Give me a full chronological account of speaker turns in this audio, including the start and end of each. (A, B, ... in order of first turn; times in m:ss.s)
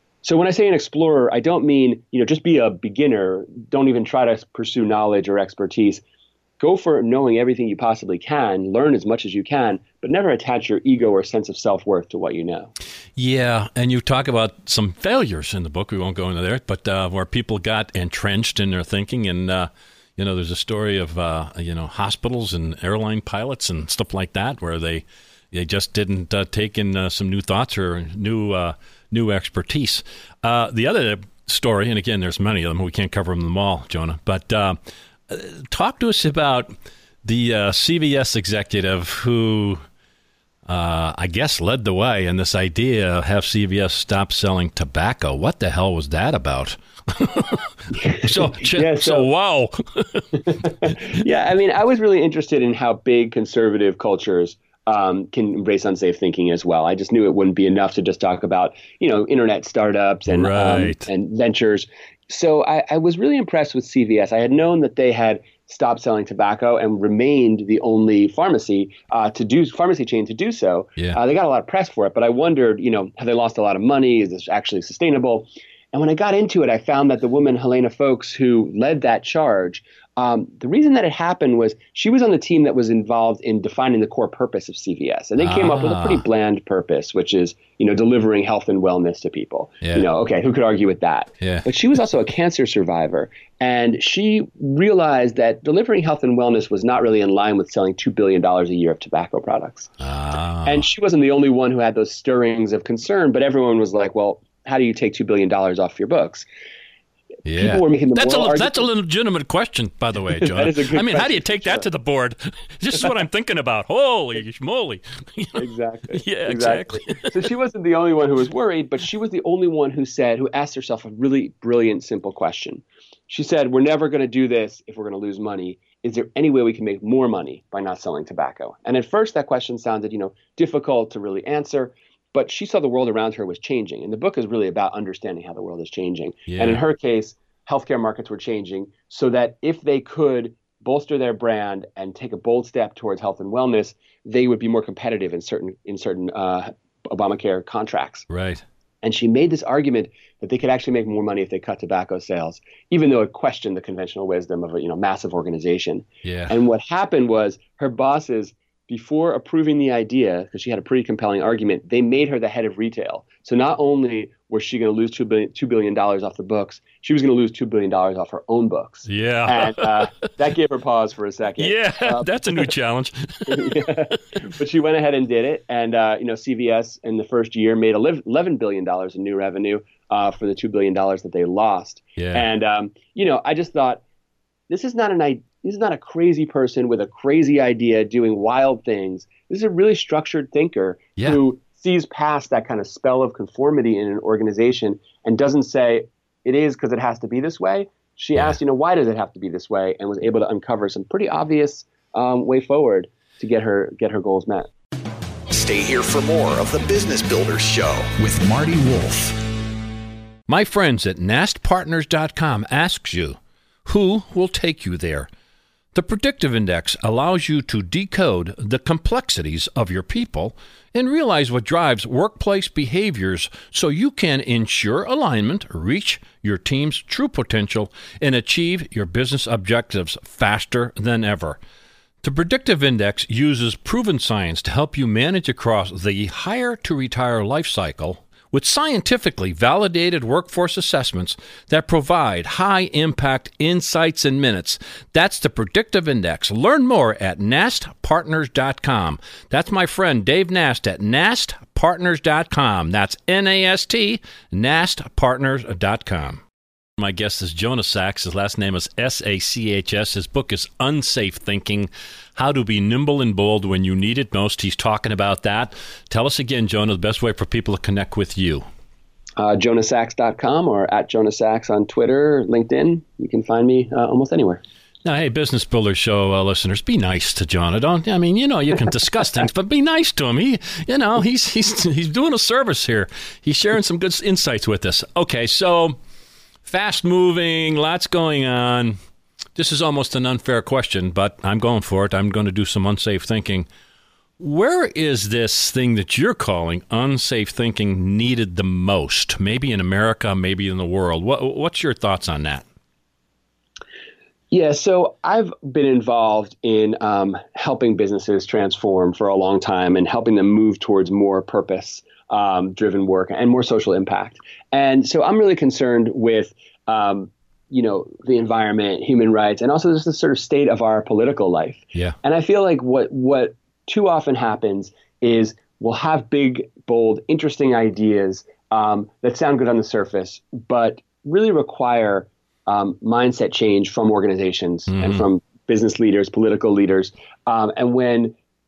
0:00.2-0:06.0 A
0:06.6-0:12.7 A
0:13.2-0:34.8 B
0:35.3-0:36.7 B
0:37.2-0:39.8 B
0:40.7-0:50.9 B
0:48.0-0:49.3 A
0:50.5-1:39.9 A
1:00.3-1:01.0 B
1:25.4-1:26.2 B
1:29.8-1:30.1 B
1:31.4-1:31.6 B
1:40.0-1:40.8 B
1:40.6-1:46.4 A
1:47.4-1:57.4 B
1:47.6-1:48.9 A
1:50.4-1:51.9 A
1:55.6-2:28.2 A
2:16.5-2:16.8 B
2:28.3-2:28.6 B
2:29.0-2:52.7 A
2:36.2-2:36.5 B
2:49.1-2:50.0 B
2:51.6-2:54.0 B
2:53.5-3:04.0 A
3:02.2-3:02.4 B
3:04.7-3:24.7 A
3:25.5-3:29.4 C
3:30.5-3:35.3 B
3:35.9-3:51.6 B
3:52.2-4:16.4 B
4:17.0-4:28.6 B
4:29.4-4:34.6 A
4:35.0-4:46.0 B
4:46.6-4:49.0 B
4:49.6-4:53.7 B
4:54.4-5:02.6 B
5:04.5-5:38.3 A
5:34.9-5:35.2 B